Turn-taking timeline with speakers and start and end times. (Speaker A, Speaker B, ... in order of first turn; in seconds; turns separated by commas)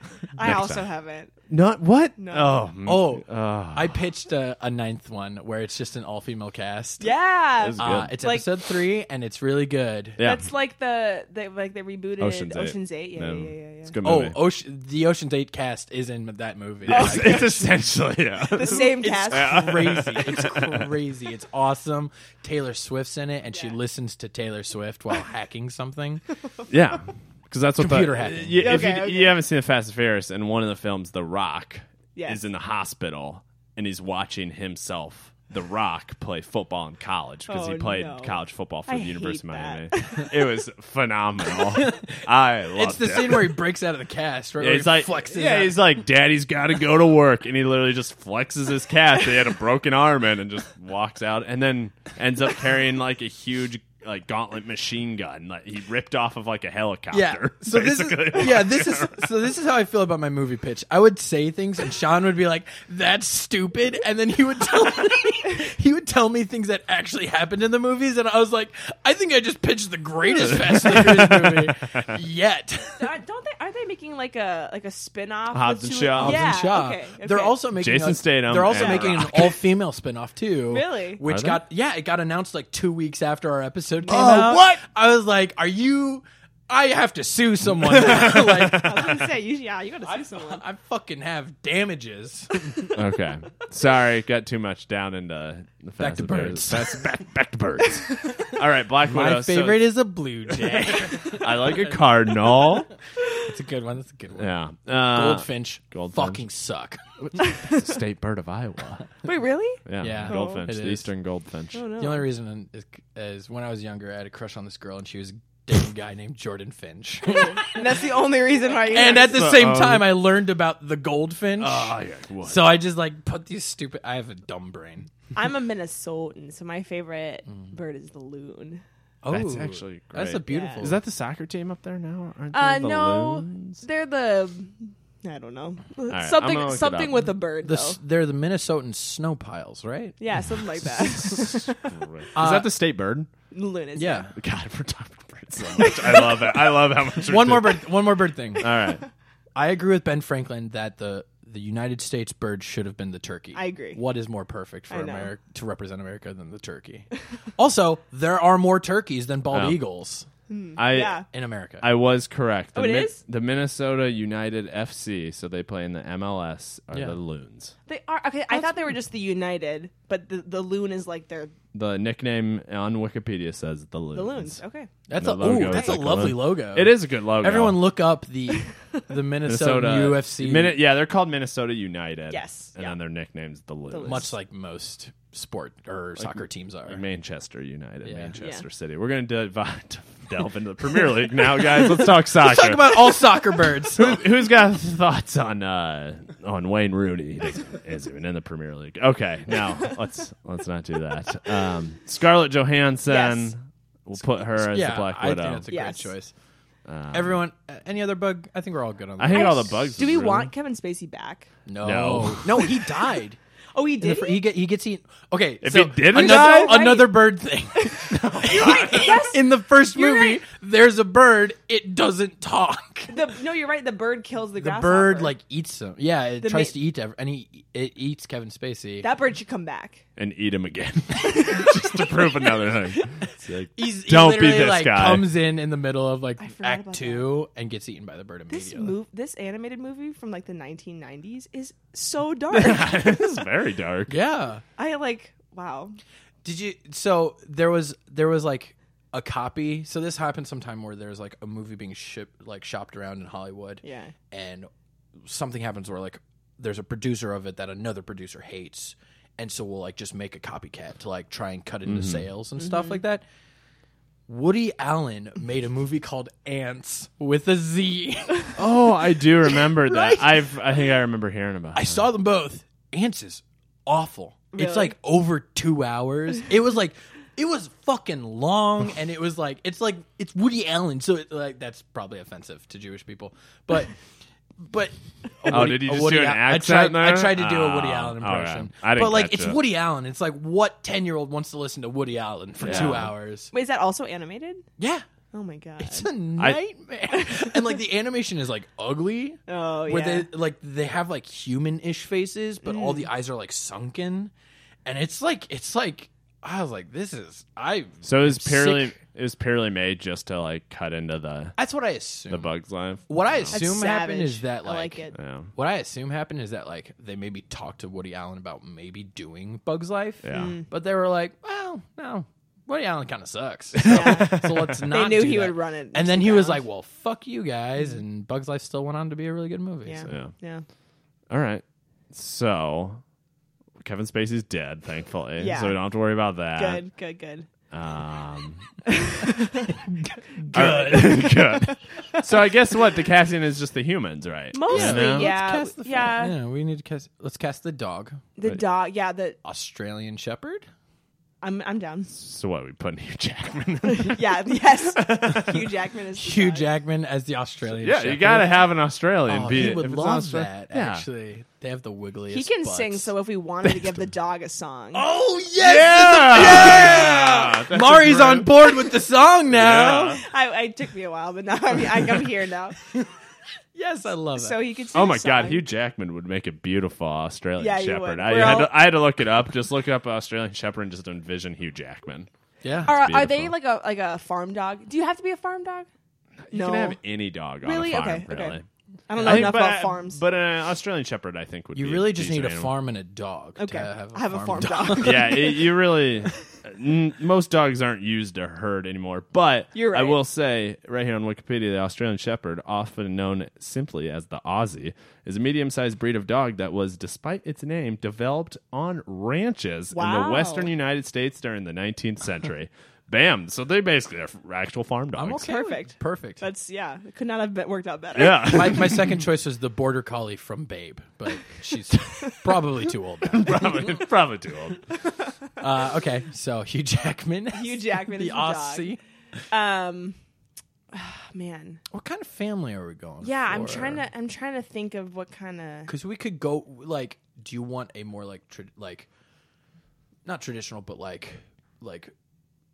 Speaker A: 0.3-0.9, Speaker B: 0.4-1.3, Speaker A: 1.5-4.0, Speaker B: 2.2-2.6, Speaker C: 2.9-7.1, Speaker B: 7.0-8.5, Speaker A: 7.6-8.2, Speaker C: 7.8-10.2, Speaker A: 10.2-10.5, Speaker B: 10.2-13.9, Speaker A: 12.2-14.4, Speaker C: 14.0-17.8, Speaker A: 16.9-20.9, Speaker B: 16.9-17.6, Speaker B: 18.4-19.7, Speaker C: 18.6-26.2, Speaker B: 23.5-23.8, Speaker A: 26.7-43.6, Speaker C: 27.8-28.9, Speaker B: 28.6-29.4, Speaker B: 32.1-32.4, Speaker B: 37.5-40.5, Speaker C: 41.7-42.2, Speaker C: 42.7-45.8, Speaker A: 44.6-59.3, Speaker C: 57.1-73.1, Speaker A: 70.4-72.2, Speaker B: 73.0-77.6, Speaker A: 75.5-76.5, Speaker C: 76.2-88.9, Speaker A: 77.8-79.6, Speaker B: 78.7-79.2, Speaker B: 80.7-81.2, Speaker A: 81.2-81.6, Speaker B: 84.0-84.7, Speaker A: 84.1-84.8, Speaker A: 87.9-89.3, Speaker B: 87.9-90.6, Speaker C: 90.0-92.8, Speaker A: 92.9-100.0, Speaker C: 96.0-97.0, Speaker C: 99.0-102.8, Speaker A: 100.5-102.9, Speaker C: 103.3-104.5, Speaker A: 104.4-106.4, Speaker C: 105.1-107.0, Speaker A: 107.2-109.1, Speaker B: 107.4-107.8, Speaker B: 109.2-110.7, Speaker A: 109.9-111.8, Speaker C: 110.0-111.1, Speaker B: 111.7-112.3, Speaker C: 112.0-118.0, Speaker B: 117.3-119.5, Speaker C: 118.9-125.1, Speaker A: 119.0-120.2, Speaker A: 121.6-122.7, Speaker B: 125.3-128.8, Speaker C: 129.2-131.0, Speaker A: 129.3-133.8, Speaker B: 130.5-130.9, Speaker B: 132.5-138.0, Speaker A: 136.1-137.2, Speaker C: 137.6-141.6, Speaker B: 140.2-141.9, Speaker A: 141.2-143.3, Speaker C: 142.3-142.7, Speaker B: 143.5-144.3, Speaker C: 144.0-144.3, Speaker A: 144.4-149.1, Speaker B: 145.8-146.4, Speaker C: 147.2-148.8, Speaker C: 149.6-160.3, Speaker B: 153.5-154.0, Speaker B: 154.9-155.3, Speaker A: 159.5-159.8, Speaker B: 160.5-161.2, Speaker A: 160.8-161.3, Speaker C: 161.3-161.9, Speaker A: 161.8-167.8, Speaker B: 162.8-163.2, Speaker C: 166.9-167.2, Speaker B: 167.9-171.5, Speaker C: 168.5-168.8, Speaker A: 171.7-174.6, Speaker B: 174.1-174.9, Speaker C: 175.1-180.8, Speaker A: 175.2-177.8, Speaker B: 178.5-179.1, Speaker A: 179.4-184.3, Speaker B: 182.3-183.0, Speaker B: 183.9-184.3, Speaker C: 184.0-187.0, Speaker A: 186.2-205.7, Speaker C: 188.0-188.4, Speaker C: 191.6-194.2, Speaker B: 203.1-203.5, Speaker C: 204.6-206.3, Speaker B: 205.7-206.1, Speaker A: 206.9-207.4, Speaker C: 207.1-209.9, Speaker A: 209.2-210.5, Speaker B: 209.3-211.5, Speaker C: 211.7-213.4, Speaker A: 211.8-212.7, Speaker B: 213.8-214.5, Speaker C: 214.0-223.2, Speaker A: 215.6-216.9, Speaker B: 216.1-220.4, Speaker A: 218.1-219.2, Speaker B: 223.1-225.3, Speaker C: 224.6-229.1, Speaker B: 226.4-226.8, Speaker B: 229.0-230.0, Speaker A: 230.2-235.3, Speaker B: 231.2-233.0, Speaker C: 233.8-238.9, Speaker B: 236.4-237.3, Speaker B: 238.5-243.2, Speaker A: 242.5-244.2, Speaker C: 244.1-244.6, Speaker B: 244.8-246.0, Speaker C: 246.4-254.7, Speaker B: 253.8-254.1, Speaker C: 255.2-263.2, Speaker A: 261.9-262.3, Speaker B: 262.6-263.0, Speaker C: 264.3-268.6, Speaker A: 268.6-272.0, Speaker C: 269.5-270.5, Speaker C: 271.7-284.0, Speaker B: 274.5-274.9, Speaker C: 284.6-293.5, Speaker A: 285.5-289.6, Speaker A: 292.6-293.1, Speaker B: 293.5-294.7, Speaker C: 294.8-295.1, Speaker B: 295.3-296.1, Speaker C: 295.8-304.3, Speaker B: 297.1-297.5, Speaker B: 299.5-300.3, Speaker B: 302.6-303.1, Speaker C: 304.9-308.9, Speaker A: 308.0-311.6, Speaker C: 311.6-312.5, Speaker A: 312.3-313.6, Speaker C: 313.1-330.2, Speaker B: 313.5-315.1, Speaker A: 315.1-315.5, Speaker A: 320.2-320.6, Speaker B: 320.3-320.7, Speaker A: 323.8-324.9, Speaker B: 323.9-326.6, Speaker B: 329.9-330.6, Speaker A: 330.1-330.3, Speaker A: 331.3-333.0, Speaker A: 333.8-336.8, Speaker B: 335.4-335.8, Speaker B: 336.6-337.5, Speaker A: 337.7-338.9, Speaker B: 338.9-339.8, Speaker C: 339.8-341.6, Speaker A: 340.5-345.3, Speaker B: 340.6-341.2, Speaker B: 341.9-342.2, Speaker B: 344.5-346.4, Speaker C: 344.7-348.2, Speaker B: 348.4-349.4, Speaker C: 349.4-350.7, Speaker B: 351.4-352.1, Speaker A: 352.1-355.6, Speaker B: 353.8-356.7, Speaker C: 356.2-358.6, Speaker A: 357.7-361.1, Speaker C: 359.3-363.1, Speaker B: 362.3-365.1, Speaker A: 363.6-364.0, Speaker C: 364.9-370.2, Speaker A: 365.6-368.8, Speaker A: 369.5-370.2, Speaker B: 369.6-372.8, Speaker C: 373.8-374.6, Speaker B: 374.4-375.6, Speaker A: 374.9-382.3, Speaker B: 377.6-378.8, Speaker C: 382.6-382.9, Speaker A: 382.9-383.5, Speaker B: 382.9-385.9, Speaker A: 386.5-388.6, Speaker B: 386.5-387.0, Speaker B: 387.6-390.2, Speaker A: 389.2-392.8, Speaker C: 389.2-389.5, Speaker C: 391.8-395.5, Speaker B: 393.6-395.6, Speaker A: 395.0-415.4, Speaker B: 399.7-400.2, Speaker B: 409.9-410.7, Speaker C: 415.1-416.4, Speaker B: 415.4-418.8, Speaker A: 418.1-419.2, Speaker C: 418.4-423.9, Speaker A: 423.3-424.9, Speaker B: 425.0-425.3, Speaker C: 425.6-429.0, Speaker B: 427.5-429.0, Speaker B: 429.5-430.2, Speaker B: 430.9-431.8, Speaker C: 431.9-434.0, Speaker B: 433.2-435.9, Speaker C: 435.9-439.1, Speaker C: 440.2-442.1